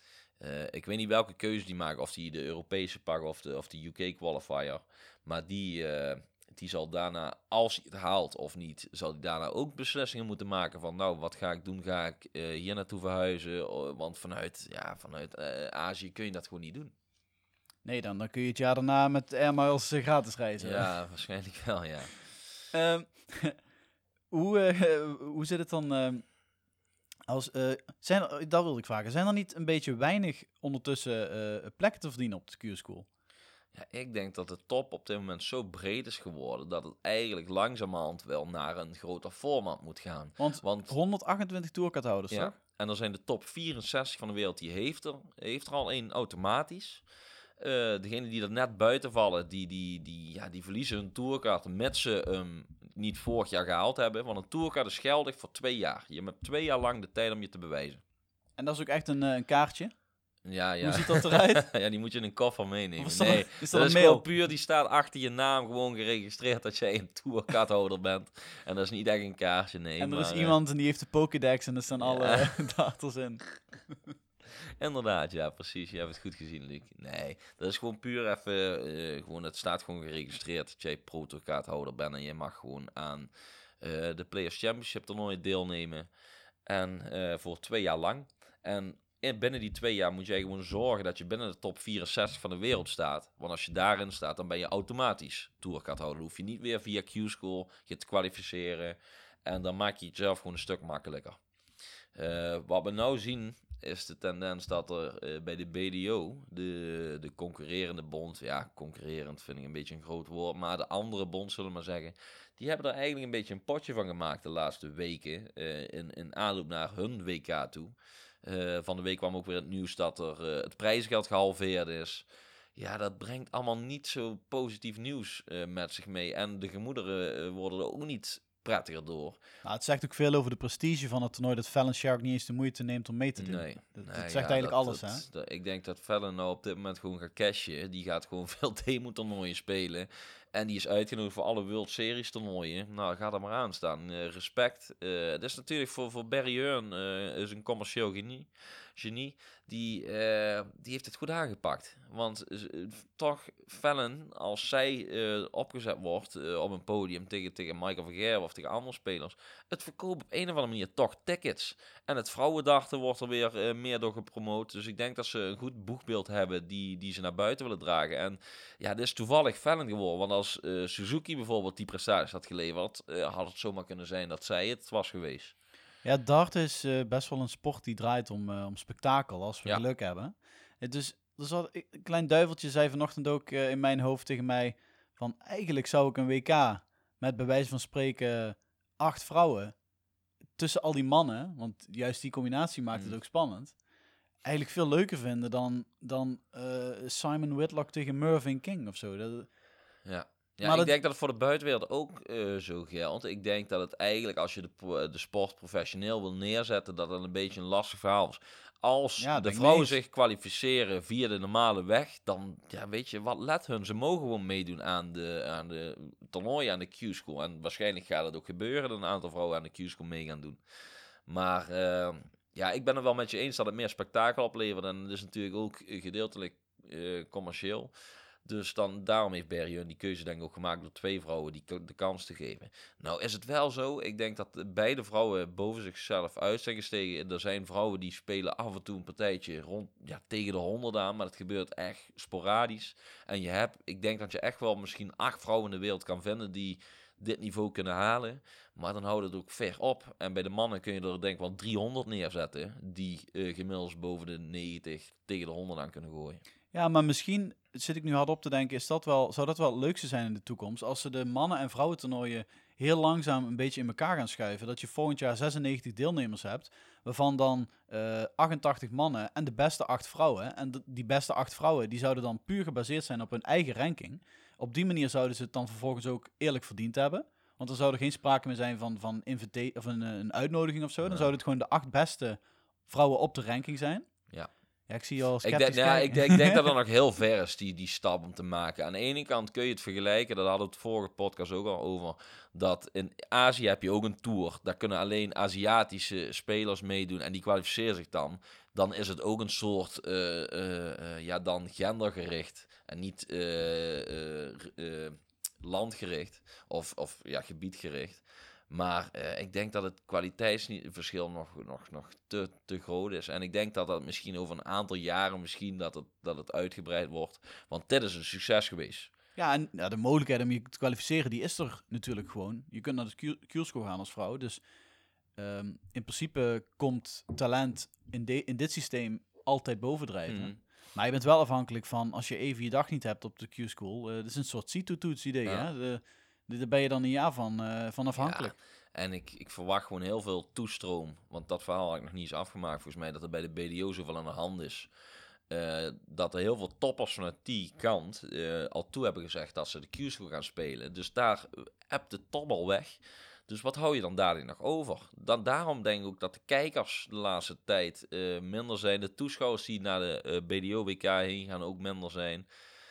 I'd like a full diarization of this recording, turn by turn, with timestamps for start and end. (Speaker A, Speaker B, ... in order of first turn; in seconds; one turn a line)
Speaker A: 0.4-16.9
Speaker B: 17.8-20.9
Speaker A: 20.6-22.3
Speaker B: 22.7-23.6
Speaker B: 24.3-26.4
Speaker B: 27.3-33.1
Speaker A: 33.7-40.9
Speaker B: 40.4-42.6
Speaker A: 42.3-47.0
Speaker A: 47.6-58.0
Speaker B: 58.6-60.0
Speaker A: 60.4-70.5
Speaker B: 60.8-61.6
Speaker B: 63.0-64.2
Speaker B: 70.0-73.4
Speaker A: 72.0-72.5
Speaker A: 74.8-83.3
Speaker A: 83.8-86.1
Speaker A: 86.7-101.4
Speaker A: 102.1-122.2
Speaker A: 122.8-129.4
Speaker B: 129.6-135.2
Speaker A: 133.4-175.5
Speaker B: 176.0-189.8
Speaker B: 190.6-193.8
Speaker B: 194.4-199.5
Speaker A: 200.1-220.6
Speaker B: 200.6-200.9
Speaker B: 209.2-209.9
Speaker A: 221.3-227.9
Speaker A: 228.4-256.4
Speaker B: 256.7-284.1
Speaker B: 284.9-286.7
Speaker A: 285.4-319.1
Speaker B: 319.4-324.6
Speaker B: 325.4-338.5
Speaker A: 330.3-330.6
Speaker A: 338.1-344.9
Speaker A: 345.5-362.4